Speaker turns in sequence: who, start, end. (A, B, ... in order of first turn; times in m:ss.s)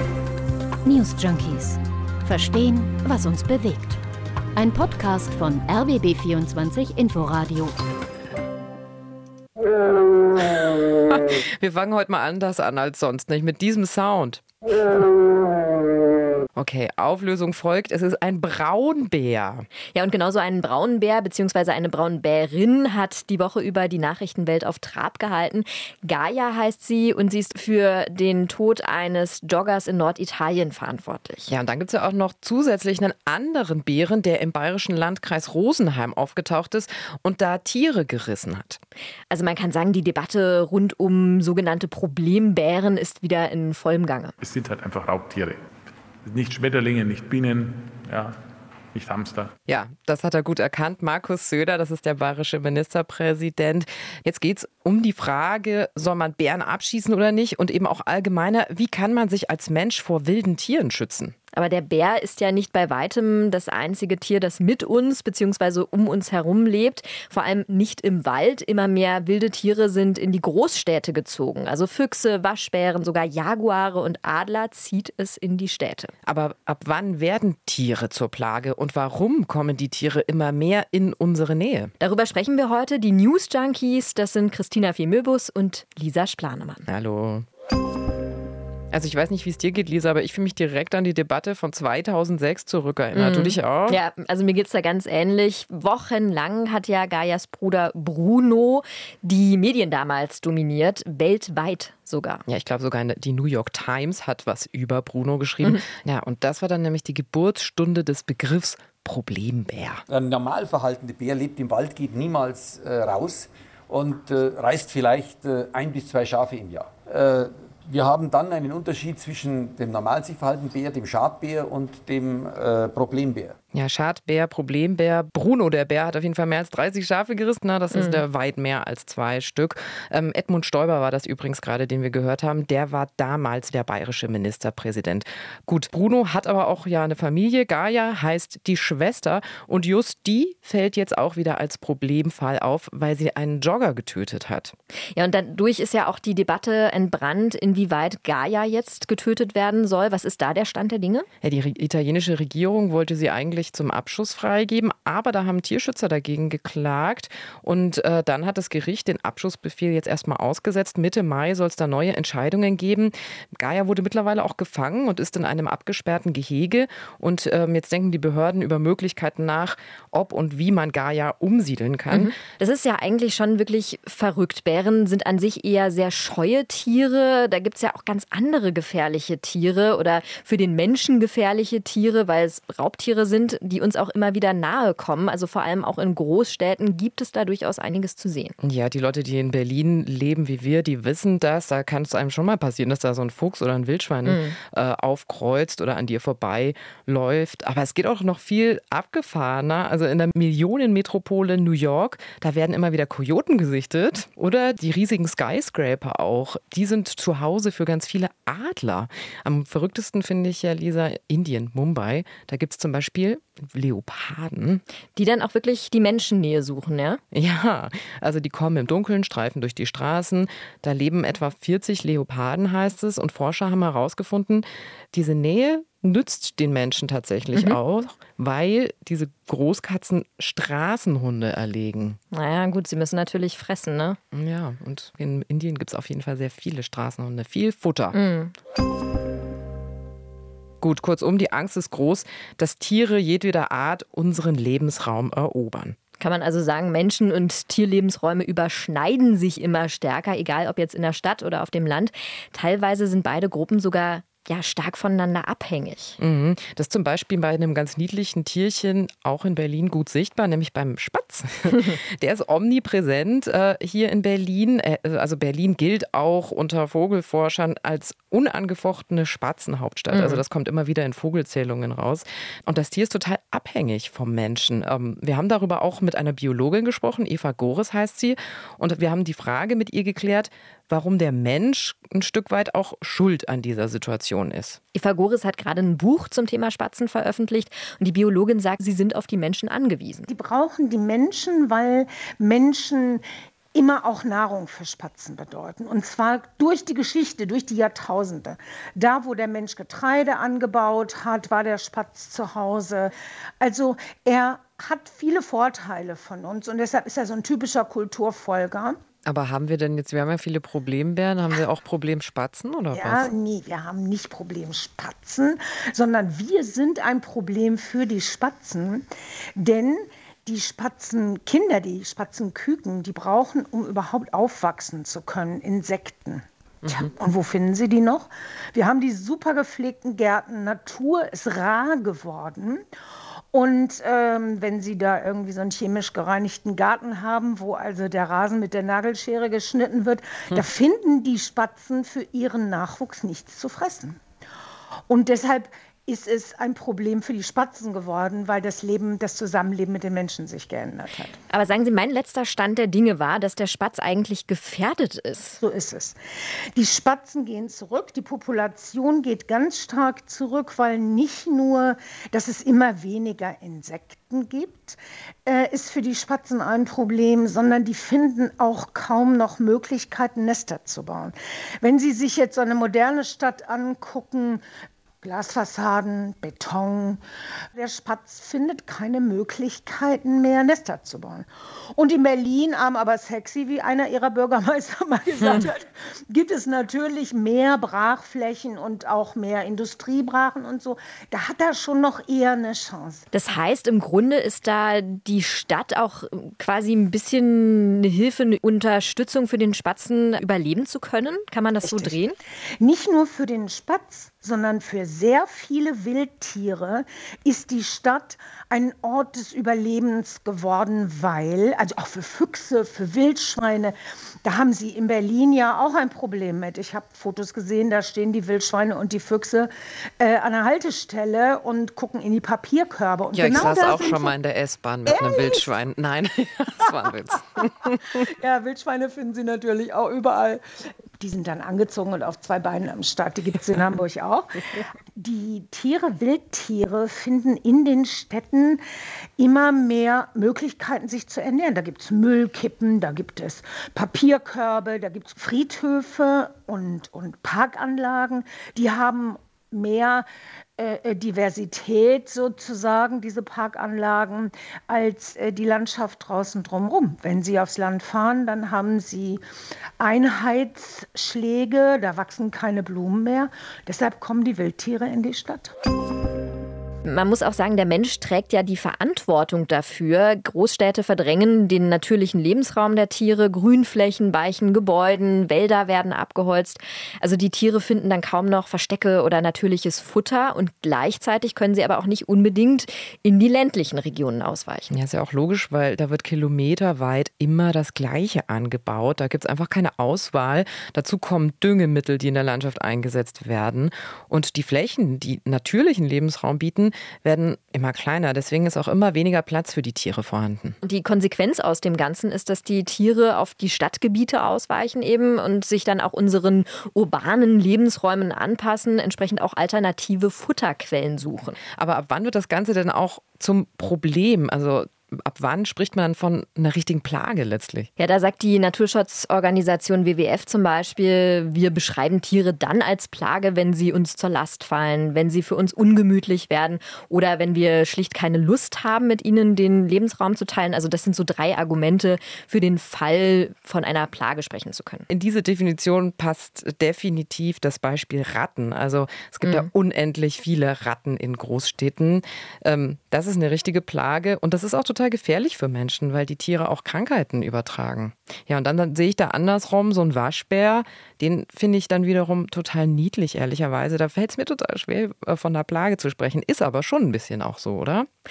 0:00.8-0:04.0 A
0:04.6-0:07.7 A
0:10.5-0:15.0 B
0:16.5-0:19.7 B
0:19.9-0:31.5 C
0:31.5-0:38.8 B
0:39.3-0:44.3 C
0:44.4-0:45.6 D
0:46.2-0:48.3 D
0:48.9-0:49.5 D
0:49.7-1:01.3 B
1:01.5-1:16.1 C
1:16.2-1:21.9 B
1:22.0-1:26.9 C
1:26.9-1:27.4 B
1:28.9-1:34.0 B
1:33.1-1:42.4 C
1:42.5-1:50.0 B
1:50.1-2:03.6 E
2:03.7-2:24.8 B
2:07.9-2:08.2 C
2:25.2-2:31.3 C
2:31.4-2:52.3 B
2:52.1-3:08.6 C
3:08.6-3:34.8 B
3:14.2-3:14.6 C
3:35.2-3:37.2 C
3:37.3-3:52.2 B
3:47.5-3:47.8 C
3:52.3-3:54.2 C
3:54.3-3:58.2 B
3:58.1-3:58.6 C
4:00.8-4:06.0 B
4:06.2-4:16.2 C
4:16.2-4:44.8 B
4:30.1-4:30.4 C
4:44.9-4:50.3 C
4:50.3-4:53.2 F
4:53.7-5:09.0 F
5:09.2-5:13.3 B
5:12.9-5:19.1 F
5:19.6-5:32.8 F
5:33.5-5:44.2 F
5:45.1-5:51.4 F
5:51.5-5:55.6 C
5:55.6-5:56.2 F
5:56.8-6:14.6 F
6:15.2-6:17.2 F
6:17.8-6:33.2 F
6:33.3-6:42.4 C
6:41.8-6:42.2 F
6:42.8-7:04.3 F
7:03.3-7:08.2 B
7:05.1-7:05.7 F
7:08.1-7:10.6 F
7:11.2-7:18.8 F
7:19.4-7:30.2 F
7:30.8-7:39.4 F
7:40.0-7:45.7 F
7:47.0-8:04.9 C
8:04.9-8:20.8 B
8:20.8-8:31.6 C
8:31.8-8:37.9 B
8:38.0-8:55.1 C
8:55.1-9:18.1 B